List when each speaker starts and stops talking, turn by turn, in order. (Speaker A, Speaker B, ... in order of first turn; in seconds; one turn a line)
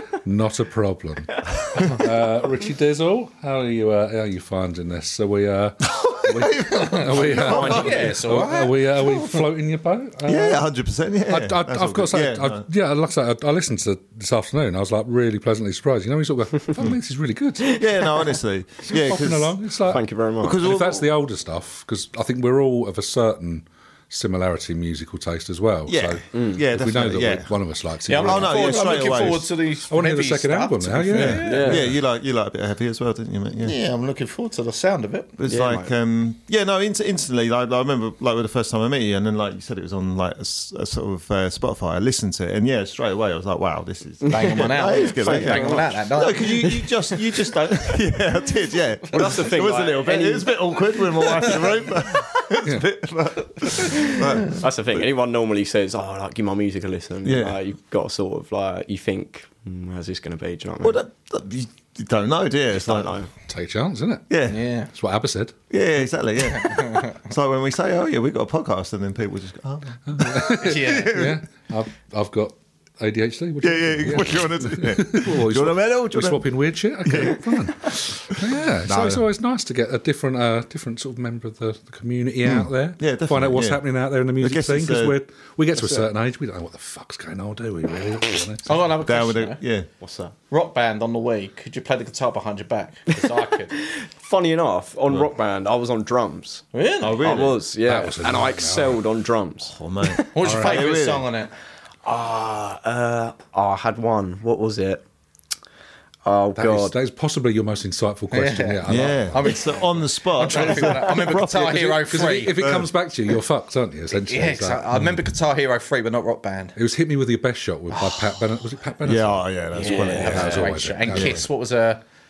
Speaker A: 0.2-10.6
Speaker B: 5.8-8.4
Speaker C: 6.9-9.5
Speaker D: 7.5-8.1
Speaker B: 10.2-12.7
Speaker A: 11.3-17.8
Speaker B: 17.7-19.6
Speaker A: 18.9-20.1
Speaker D: 19.9-20.6
Speaker B: 20.4-21.1
Speaker A: 20.6-29.3
Speaker B: 25.9-27.5
Speaker D: 26.3-26.6
Speaker C: 28.1-31.9
Speaker B: 28.2-29.5
Speaker A: 29.9-31.9
Speaker B: 31.1-33.8
Speaker D: 31.4-31.9
Speaker C: 33.6-35.4
Speaker B: 35.4-55.0
Speaker D: 35.5-35.9
Speaker D: 44.2-45.9
Speaker C: 44.3-46.8
Speaker D: 49.1-50.6
Speaker D: 54.5-61.0
Speaker B: 57.2-57.6
Speaker B: 60.8-63.1
Speaker D: 62.7-63.3
Speaker A: 63.5-64.3
Speaker B: 64.3-64.7
Speaker C: 64.5-64.9
Speaker A: 64.9-65.5
Speaker B: 65.7-71.4
Speaker C: 66.6-67.0
Speaker A: 70.1-88.7
Speaker C: 70.5-71.2
Speaker B: 73.6-76.5
Speaker B: 77.0-79.2
Speaker B: 82.4-83.8
Speaker B: 84.4-85.2
Speaker C: 88.7-89.6
Speaker B: 89.0-89.9
Speaker D: 90.0-90.3
Speaker C: 90.5-93.8
Speaker D: 93.2-96.6
Speaker C: 96.7-97.3
Speaker B: 97.0-97.7
Speaker D: 97.2-99.8
Speaker A: 97.9-99.0
Speaker B: 99.7-101.3
Speaker C: 100.3-101.5
Speaker A: 100.4-100.8
Speaker D: 102.0-105.0
Speaker D: 106.2-107.0
Speaker A: 106.6-109.5
Speaker C: 108.3-112.6
Speaker B: 108.9-112.9
Speaker A: 112.0-114.9
Speaker C: 114.1-116.8
Speaker A: 116.8-119.5
Speaker C: 117.9-118.3
Speaker B: 119.0-121.5
Speaker C: 119.7-122.0
Speaker D: 119.8-120.6
Speaker A: 120.2-121.4